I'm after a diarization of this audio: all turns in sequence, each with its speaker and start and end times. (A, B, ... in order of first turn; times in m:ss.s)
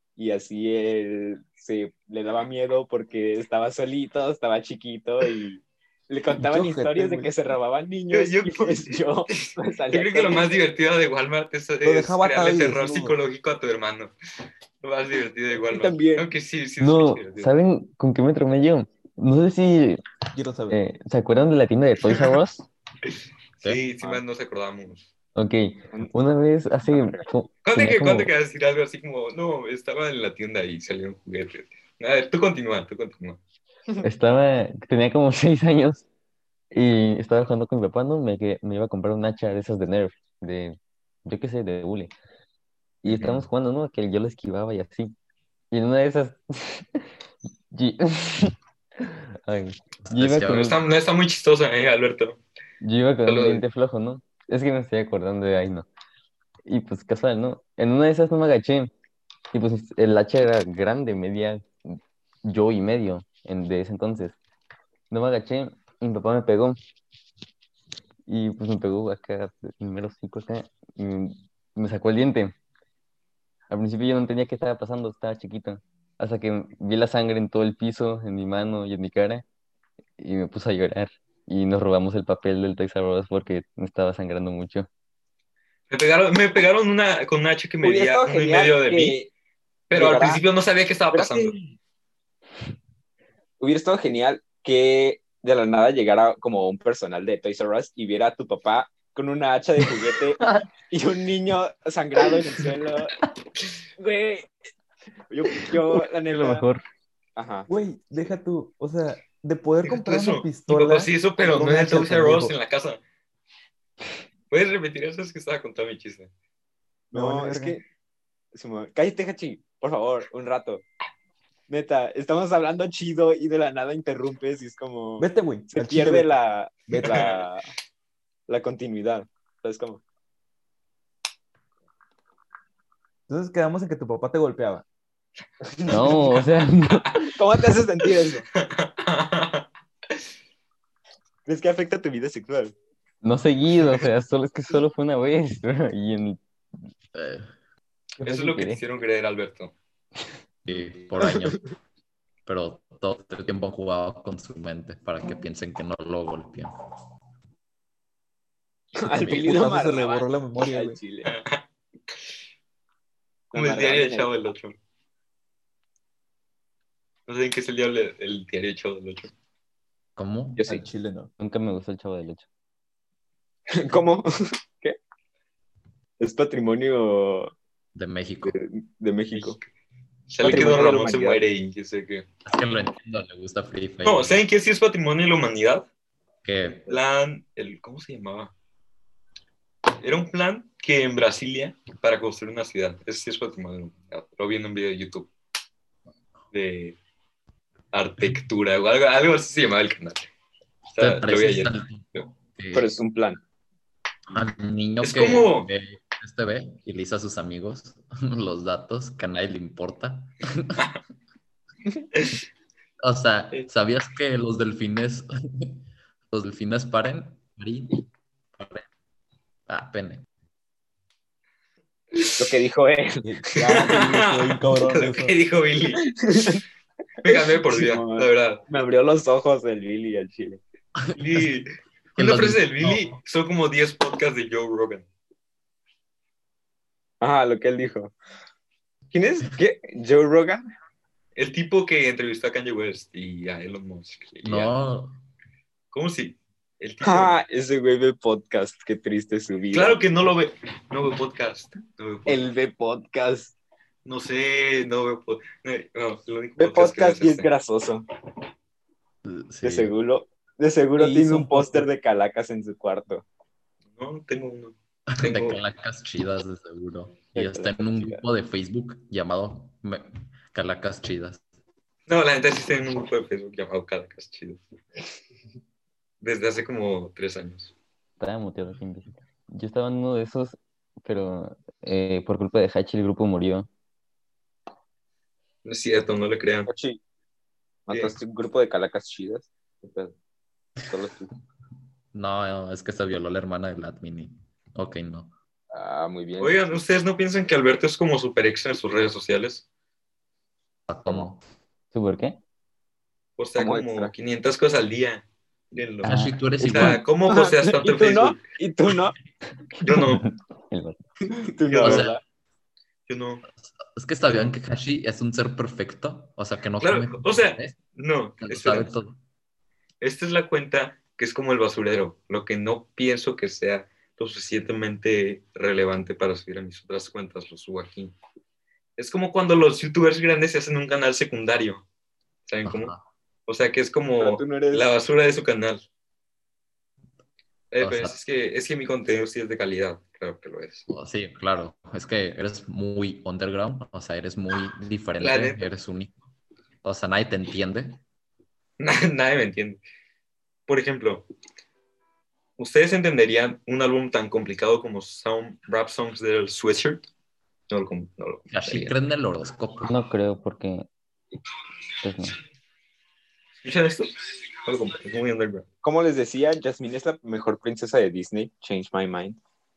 0:00.2-0:10.6 A
0:06.3-0:07.3 B
0:08.1-0:14.1 C
0:11.8-0:13.2 B
0:14.8-0:17.5 C
0:15.6-0:16.3 A
0:16.8-0:20.0 D
0:20.3-0:20.8 B
0:20.7-0:22.6 D
0:22.1-0:22.4 C
0:23.6-0:25.1 C
0:25.4-0:28.3 D
0:26.8-0:27.3 A
0:27.6-0:33.4 C
0:34.0-0:36.0 D
0:36.7-0:42.1 D
0:43.0-0:45.1 D
0:43.1-0:43.5 E
0:45.7-0:47.1 D
0:47.7-0:50.8 D
0:50.0-0:50.8 E
0:50.5-0:52.4 C
0:52.8-0:55.9 D
0:53.3-0:53.6 C
0:56.7-0:58.9 D
0:59.5-1:04.4 D
1:05.1-1:06.8 D
1:08.3-1:12.6 D
1:13.7-1:19.4 D
1:20.2-1:24.9 D
1:25.9-1:29.2 C
1:27.8-1:29.3 A
1:29.9-1:31.5 C
1:29.9-1:30.4 A
1:31.1-1:31.6 A
1:33.6-1:43.1 A
1:44.0-1:44.5 A
1:45.3-1:46.6 A
1:46.3-1:46.8 D
1:47.4-1:47.7 A
1:47.7-1:52.6 B
1:49.8-1:53.0 C
1:54.5-1:56.3 C
1:57.1-1:57.8 A
1:57.1-1:57.8 B
1:58.6-2:00.8 A
2:01.7-2:07.7 A
2:05.2-2:06.4 B
2:06.9-2:07.3 B
2:08.5-2:10.0 A
2:13.3-2:14.8 B
2:15.6-2:16.4 A
2:15.9-2:17.3 D
2:17.3-2:18.4 A
2:18.6-2:20.2 C
2:21.5-2:22.7 A
2:23.2-2:26.4 D
2:27.1-2:27.5 E
2:28.2-2:28.8 D
2:28.2-2:29.7 C
2:30.7-2:31.6 E
2:31.2-2:31.6 A
2:32.5-2:36.7 E
2:39.0-2:41.4 A
2:39.1-2:39.4 E
2:39.2-2:41.0 B
2:41.2-2:41.6 C
2:43.5-2:44.3 A
2:43.5-2:44.8 C
2:47.3-2:49.3 C
2:50.2-2:50.7 E
2:50.6-2:50.8 A
2:50.6-2:51.3 B
2:51.4-2:52.5 D
2:53.7-2:55.0 A
2:56.2-2:57.5 A
2:58.0-2:58.6 E
2:58.4-2:59.6 A
2:59.3-2:59.7 C
3:00.3-3:02.3 C
3:00.4-3:01.4 A
3:02.5-3:04.4 E
3:04.0-3:05.9 C
3:06.4-3:06.9 E
3:06.9-3:08.5 C
3:10.0-3:15.3 C
3:16.5-3:17.0 C
3:17.9-3:20.3 C
3:20.9-3:22.3 C
3:21.0-3:22.9 E
3:22.7-3:23.4 A
3:24.3-3:30.9 E
3:25.0-3:25.7 C
3:33.0-3:38.9 E
3:39.7-3:40.3 E
3:42.4-3:43.9 A
3:43.2-3:45.4 B
3:43.7-3:46.0 C
3:45.9-3:46.6 A
3:47.2-3:48.6 C
3:47.3-3:50.6 A
3:51.1-3:51.5 E
3:51.2-3:55.1 C
3:52.2-3:53.2 E
3:57.2-3:58.1 A
3:59.1-4:00.6 A
4:01.4-4:04.7 C
4:04.4-4:05.2 E
4:05.9-4:07.4 C
4:07.0-4:10.0 A
4:09.7-4:12.4 C
4:12.3-4:13.5 A
4:14.0-4:17.5 C
4:16.6-4:18.0 A
4:19.2-4:19.9 E
4:19.6-4:23.2 A
4:21.0-4:21.9 B
4:24.0-4:25.6 C
4:25.1-4:31.4 E
4:27.4-4:28.2 A
4:32.1-4:34.6 C
4:36.2-4:37.7 C
4:38.2-4:43.7 D
4:45.6-4:46.7 C
4:46.7-4:47.0 A
4:47.9-4:50.1 A
4:50.9-4:51.3 A
4:52.1-4:55.3 E
4:55.7-4:56.8 A
4:56.4-4:59.6 C
5:00.9-5:01.4 E
5:01.9-5:02.4 D
5:03.4-5:08.4 C
5:03.6-5:04.1 A
5:06.0-5:07.0 D
5:06.0-5:07.0 E
5:07.3-5:09.2 A
5:09.8-5:10.2 C
5:09.8-5:11.0 D
5:11.3-5:12.2 A
5:11.7-5:12.1 C
5:11.8-5:12.2 E
5:13.1-5:13.4 C
5:13.7-5:17.8 E
5:16.8-5:18.9 C
5:18.4-5:19.2 E
5:20.0-5:28.2 C
5:29.0-5:31.8 C
5:32.5-5:32.9 C
5:32.6-5:33.0 E
5:33.5-5:35.8 C
5:34.2-5:34.9 A
5:37.7-5:40.9 C
5:37.8-5:38.2 E
5:40.9-5:46.1 E
5:45.2-5:45.7 C
5:46.8-5:48.0 E
5:48.8-5:49.8 C
5:50.7-5:51.2 C
5:52.6-5:57.0 C
5:57.7-5:58.9 C
5:58.5-5:59.9 E
5:59.9-6:00.9 D
6:02.0-6:02.4 D
6:03.6-6:05.6 C
6:05.8-6:09.4 A